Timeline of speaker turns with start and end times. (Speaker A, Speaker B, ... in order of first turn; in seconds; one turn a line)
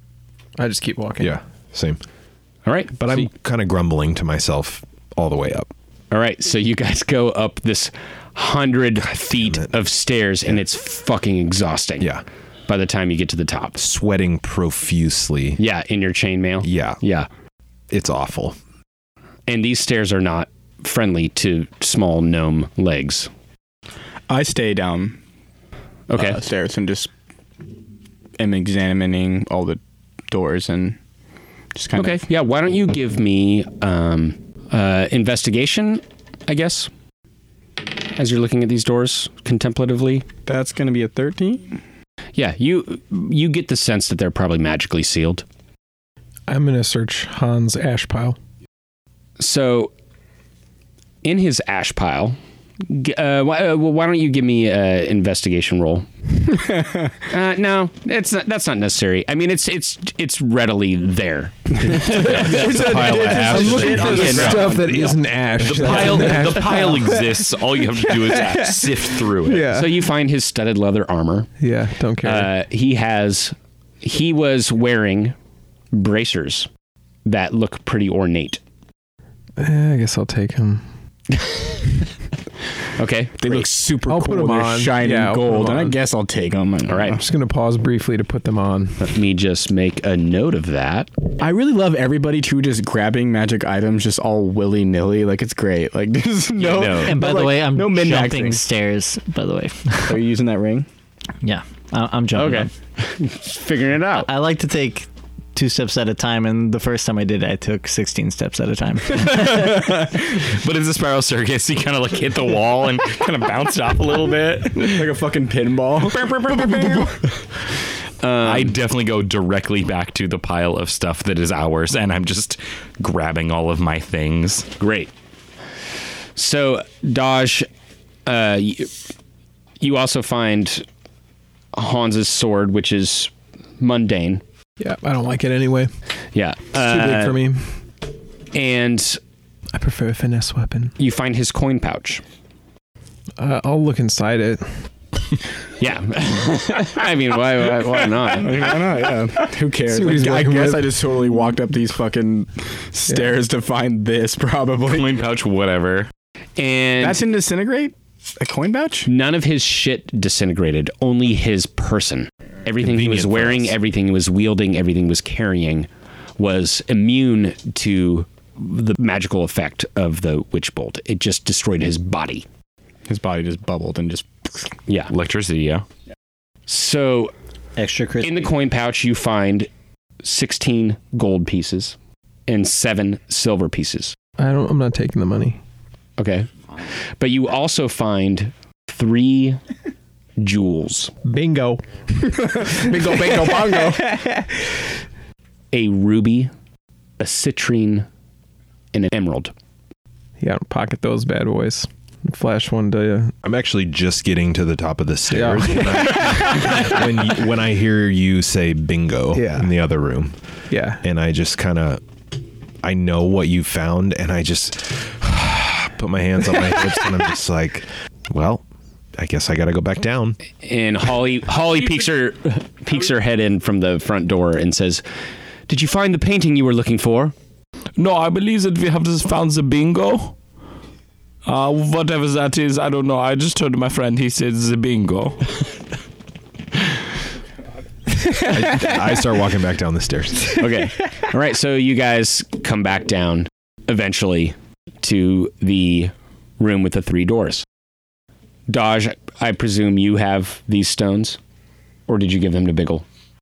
Speaker A: 0.6-1.4
Speaker B: 1.2-2.0
Speaker C: 2.7-3.2
Speaker B: 3.0-5.7
Speaker C: 6.1-12.1
Speaker B: 9.0-9.7
Speaker C: 12.7-13.8
Speaker B: 13.8-15.6
Speaker C: 15.6-17.3
Speaker B: 16.6-17.0
Speaker B: 17.9-18.6
Speaker C: 19.5-23.3
Speaker D: 24.3-25.2
Speaker C: 26.1-26.4
Speaker D: 26.1-27.1
Speaker D: 28.4-31.0
Speaker D: 31.8-32.2
Speaker C: 31.9-36.9
Speaker C: 38.1-40.2
Speaker D: 40.5-41.8
Speaker C: 42.4-45.5
Speaker A: 46.5-48.4
Speaker C: 49.4-49.9
Speaker C: 51.2-56.1
Speaker D: 56.5-57.1
Speaker C: 57.3-64.7
Speaker D: 61.8-65.2
Speaker E: 61.9-64.8
Speaker A: 62.0-70.1
Speaker E: 65.6-69.7
Speaker D: 65.8-66.9
Speaker C: 69.7-71.5
Speaker A: 71.6-72.5
Speaker C: 72.2-75.4
Speaker C: 75.9-76.7
Speaker C: 77.3-78.6
Speaker A: 79.6-80.8
Speaker C: 81.4-81.8
Speaker C: 83.0-83.9
Speaker D: 83.4-87.2
Speaker A: 84.1-86.0
Speaker C: 86.9-87.2
Speaker A: 87.2-89.0
Speaker C: 89.0-91.1
Speaker D: 91.4-98.6
Speaker C: 96.6-97.2
Speaker F: 97.1-100.2
Speaker D: 100.0-100.9
Speaker F: 101.4-102.7
Speaker C: 102.3-104.3
Speaker F: 104.2-109.3
Speaker E: 109.1-115.1
Speaker D: 114.7-117.1
Speaker E: 116.2-117.2
Speaker C: 118.2-118.8
Speaker E: 118.4-124.7
Speaker C: 124.8-125.1
Speaker C: 126.4-127.7
Speaker C: 128.3-128.9
Speaker C: 129.8-130.8
Speaker C: 131.7-134.4
Speaker A: 134.8-135.9
Speaker C: 136.3-137.4
Speaker A: 136.8-137.8
Speaker C: 138.5-139.2
Speaker A: 139.7-140.9
Speaker C: 141.0-142.2
Speaker A: 143.4-144.7
Speaker C: 145.8-148.7
Speaker D: 148.4-155.1
Speaker A: 149.9-151.1
Speaker A: 153.1-153.4
Speaker E: 154.9-156.1
Speaker C: 156.6-157.2
Speaker D: 157.0-159.1
Speaker C: 159.1-172.5
Speaker B: 162.8-163.8
Speaker D: 173.1-174.7
Speaker E: 175.1-175.8
Speaker C: 176.7-177.3
Speaker F: 177.8-178.4
Speaker C: 178.2-179.7
Speaker C: 180.2-181.9
Speaker C: 182.5-184.2
Speaker A: 184.4-185.6
Speaker C: 186.2-186.5
Speaker C: 187.2-189.6
Speaker C: 190.4-191.1
Speaker A: 191.3-191.8
Speaker D: 192.3-194.2
Speaker A: 192.9-193.8
Speaker C: 195.7-196.5
Speaker C: 197.2-198.1
Speaker C: 198.9-199.5
Speaker A: 200.4-203.3
Speaker B: 203.4-210.3
Speaker A: 205.3-207.0
Speaker A: 209.3-209.7
Speaker A: 210.7-211.0
Speaker B: 211.0-212.0
Speaker B: 212.8-218.7
Speaker B: 219.2-220.4
Speaker C: 220.6-225.0
Speaker C: 225.7-227.3
Speaker E: 228.0-230.4
Speaker E: 231.4-235.5
Speaker B: 238.4-240.7
Speaker C: 240.6-247.7
Speaker C: 248.7-251.4
Speaker C: 252.1-253.0